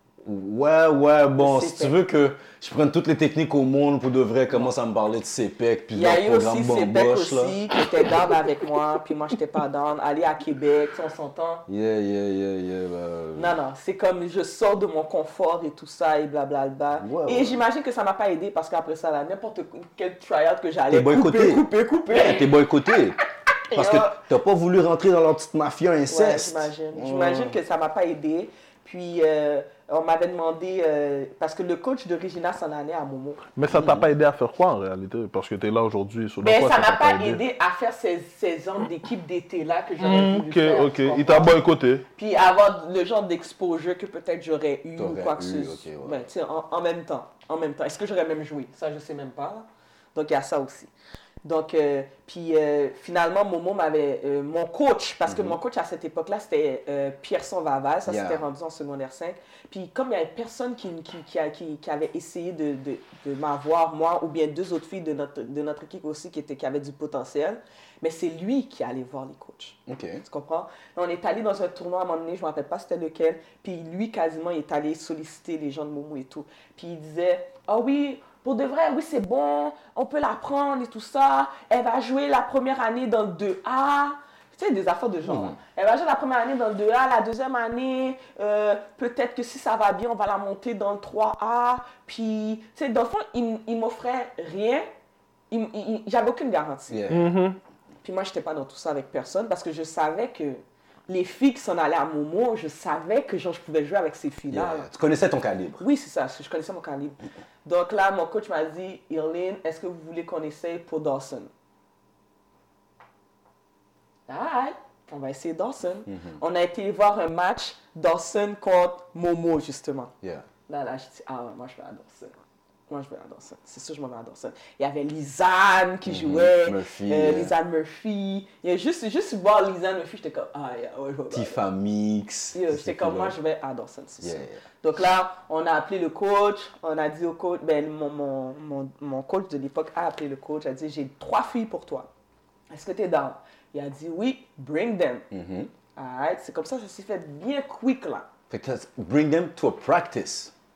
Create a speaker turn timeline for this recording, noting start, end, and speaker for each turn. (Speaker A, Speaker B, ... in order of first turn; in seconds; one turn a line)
Speaker A: 0.2-7.6
Speaker B: 1.4-2.0
Speaker B: 5.9-11.6
Speaker A: 11.7-13.6
Speaker B: 13.3-22.6
Speaker A: 17.0-17.6
Speaker A: 20.9-23.2
Speaker B: 23.7-24.2
Speaker A: 23.7-27.6
Speaker B: 26.1-33.4
Speaker C: 33.5-37.4
Speaker A: 33.7-34.1
Speaker B: 36.4-41.6
Speaker C: 40.0-42.0
Speaker B: 42.1-50.9
Speaker A: 45.0-46.3
Speaker B: 51.4-94.9
Speaker A: 55.3-55.6
Speaker A: 58.0-58.5
Speaker A: 69.9-70.2
Speaker A: 85.2-85.6
Speaker B: 95.5-97.0
Speaker A: 96.9-97.3
Speaker C: 97.1-97.6
Speaker B: 98.0-104.9
Speaker A: 104.5-105.8
Speaker B: 105.8-111.5
Speaker B: 114.3-120.1
Speaker A: 116.1-116.4
Speaker A: 120.2-120.5
Speaker B: 120.7-122.3
Speaker B: 122.9-131.6
Speaker A: 126.0-127.5
Speaker A: 131.3-133.4
Speaker B: 132.5-142.1
Speaker A: 134.2-134.6
Speaker B: 142.7-145.2
Speaker A: 145.3-145.7
Speaker B: 145.9-148.2
Speaker A: 148.5-150.5